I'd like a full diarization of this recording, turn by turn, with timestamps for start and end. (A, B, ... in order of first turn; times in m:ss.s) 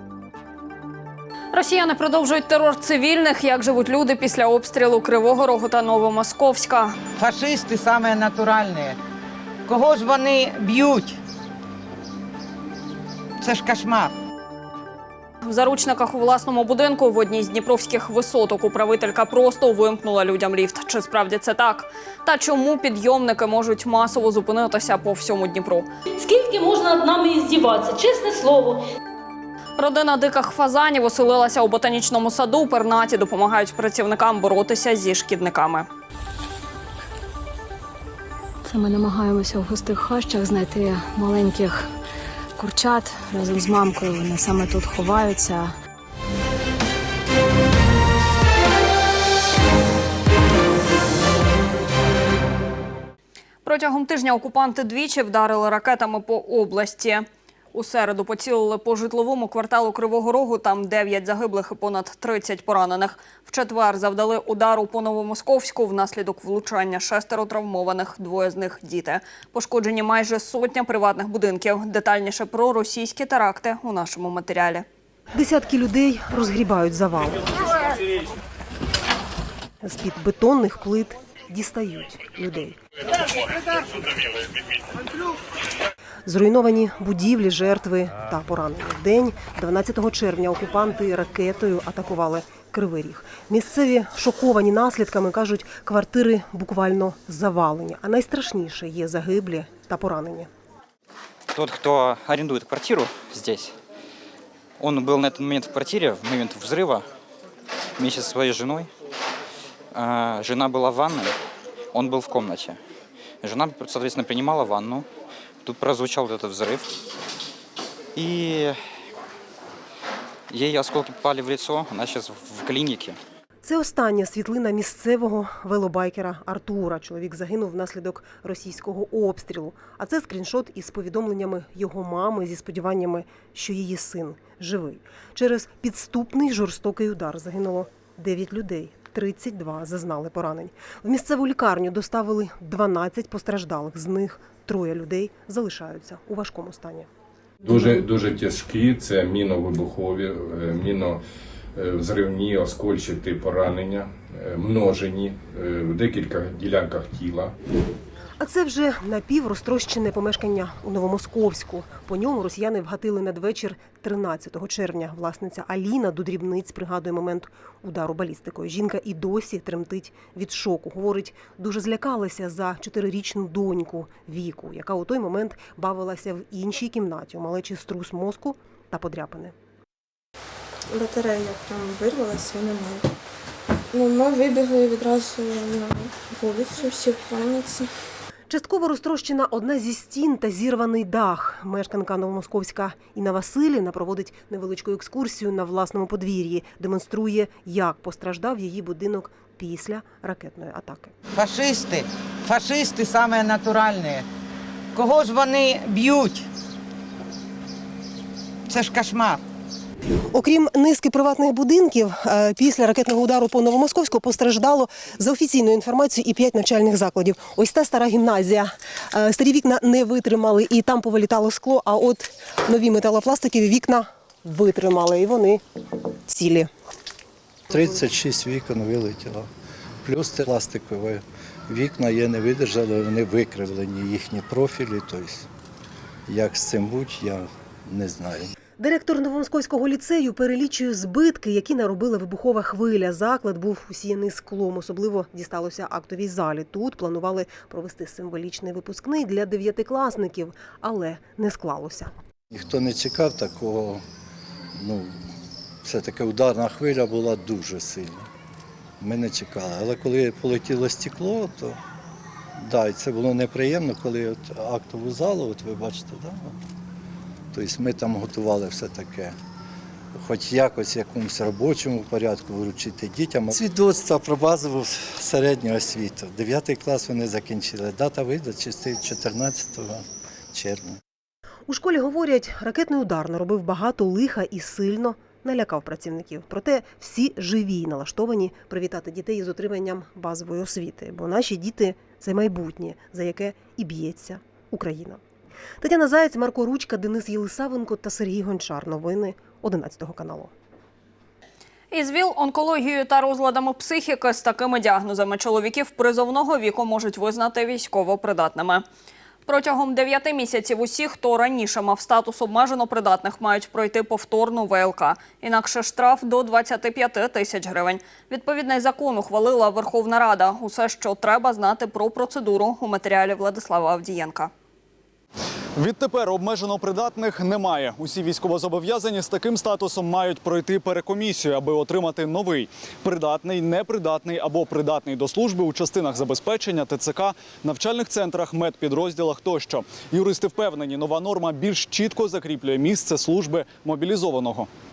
0:01.5-0:07.0 A
0:07.2-0:09.0 B
0:09.7-0:11.2 B
0:13.4-0:14.1 B
0:15.4-0:25.9 A
0:26.1-0:28.8 C
0:29.8-0:35.9 A
0:38.6-0:41.9 D
0:42.6-0:45.7 D
0:53.6-1:14.8 A
1:15.4-1:17.5 E
1:19.8-1:22.8 E
1:26.3-1:40.5 E
1:41.5-1:43.7 F
1:44.8-1:47.1 F
1:48.0-1:48.9 F
1:50.0-1:51.3 F
1:51.9-1:52.8 F
1:53.4-1:55.1 F
1:55.6-1:56.9 F
1:58.2-1:58.8 F
2:00.5-2:03.2 F
2:03.6-2:27.1 E
2:27.6-2:31.2 G
2:31.8-2:37.5 G
2:38.4-2:59.5 E
3:00.9-3:03.1 H
3:03.9-3:07.9 H
3:08.5-3:21.1 E
3:21.4-3:24.3 B
3:24.9-3:26.5 B
3:28.7-3:29.4 B
3:30.3-3:45.6 E
3:46.3-3:46.7 E
3:47.7-3:49.5 I
3:50.0-3:55.5 I
3:56.3-3:58.6 I
3:58.8-4:12.1 E
4:12.5-4:14.0 I
4:14.8-4:15.2 I
4:15.8-4:18.3 I
4:19.0-4:21.8 I
4:22.6-4:26.6 I
4:27.5-4:29.4 I
4:30.2-4:41.0 I
4:41.7-4:55.2 E
4:55.8-5:00.5 E
5:01.9-5:08.8 A
5:09.5-5:24.5 A
5:25.8-5:44.7 J